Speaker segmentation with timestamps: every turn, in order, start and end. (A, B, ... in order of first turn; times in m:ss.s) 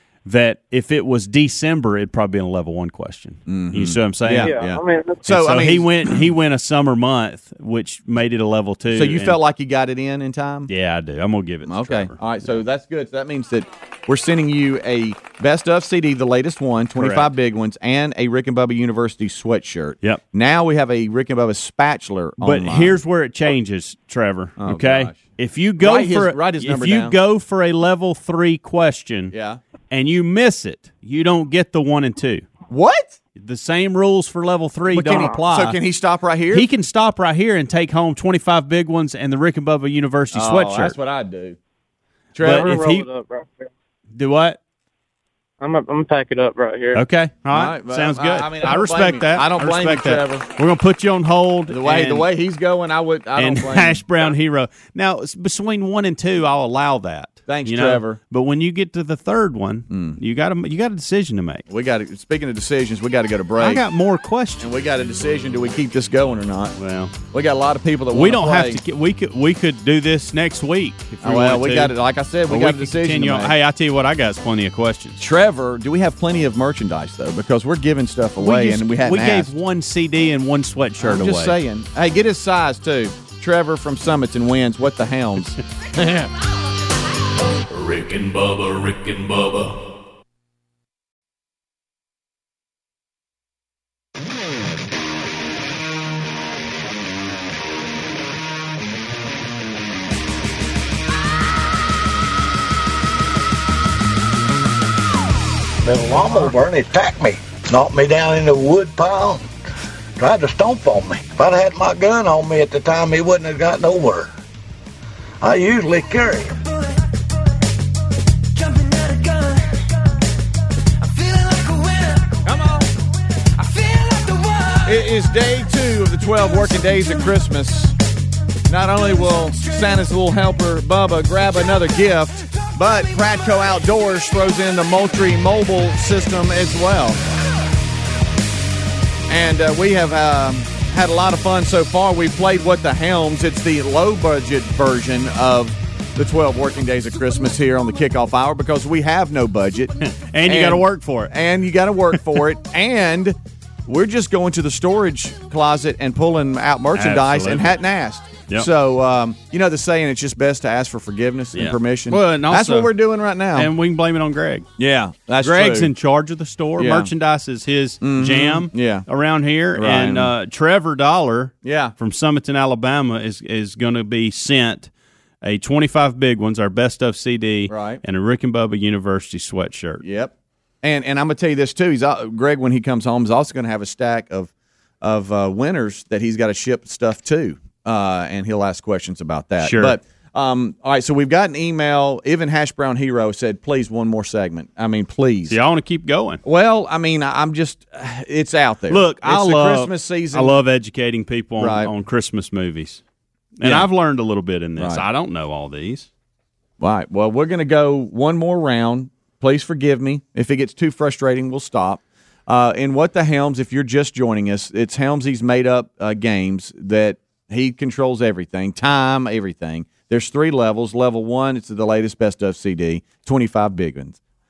0:00.2-0:04.6 A
0:03.5-0:06.3 B
0:04.4-0:05.2 C
0:05.2-0:09.4 A
0:08.9-0:10.7 B
0:10.7-0:12.6 A
0:11.7-0:23.0 B
0:17.0-0:17.3 A
0:22.4-0:29.3 A
0:24.6-0:25.2 B
0:25.8-0:27.2 B
0:29.3-0:29.6 B
0:29.9-0:32.5 A
0:32.7-0:33.2 B
0:33.4-0:35.8 A
0:34.9-0:36.7 B
0:36.5-0:41.0 A
0:40.3-0:41.6 B
0:42.4-0:42.8 B
0:42.4-0:43.1 A
0:42.5-0:43.7 C
0:44.1-0:44.6 A
0:45.6-0:47.0 C
0:46.9-0:52.3 A
0:47.5-0:50.4 B
0:51.7-0:54.3 B
0:53.4-1:01.7 A
0:57.5-0:58.2 B
0:59.9-1:00.2 B
1:01.7-1:03.8 B
1:03.6-1:04.7 A
1:04.6-1:06.8 B
1:06.8-1:07.2 A
1:07.3-1:08.8 B
1:08.1-1:12.0 A
1:11.2-1:13.5 B
1:12.5-1:15.2 A
1:15.2-1:19.5 B
1:18.4-1:21.6 A
1:21.0-1:26.3 B
1:27.7-1:29.8 D
1:45.8-1:49.5 E
1:50.2-1:54.3 E
1:55.4-1:56.6 E
2:02.4-2:02.9 B
2:04.8-2:08.0 B
2:08.7-2:17.2 B
2:19.3-2:43.7 B
2:30.2-2:31.3 A
2:37.0-2:37.8 A
2:41.6-2:42.9 A
2:43.5-2:44.7 A
2:44.8-2:45.9 B
2:45.4-2:54.9 A
2:46.8-2:47.1 B
2:48.0-2:49.0 B
2:49.8-2:50.3 B
2:51.6-2:52.0 B
2:55.4-3:00.0 A
2:57.7-2:58.0 B
3:00.0-3:15.6 B
3:09.6-3:10.0 A
3:15.5-3:16.4 A
3:16.4-3:20.6 B
3:18.9-3:23.0 A
3:21.6-3:21.9 B
3:23.6-3:26.1 A
3:23.6-3:23.9 B
3:24.8-3:25.0 B
3:26.8-3:44.2 B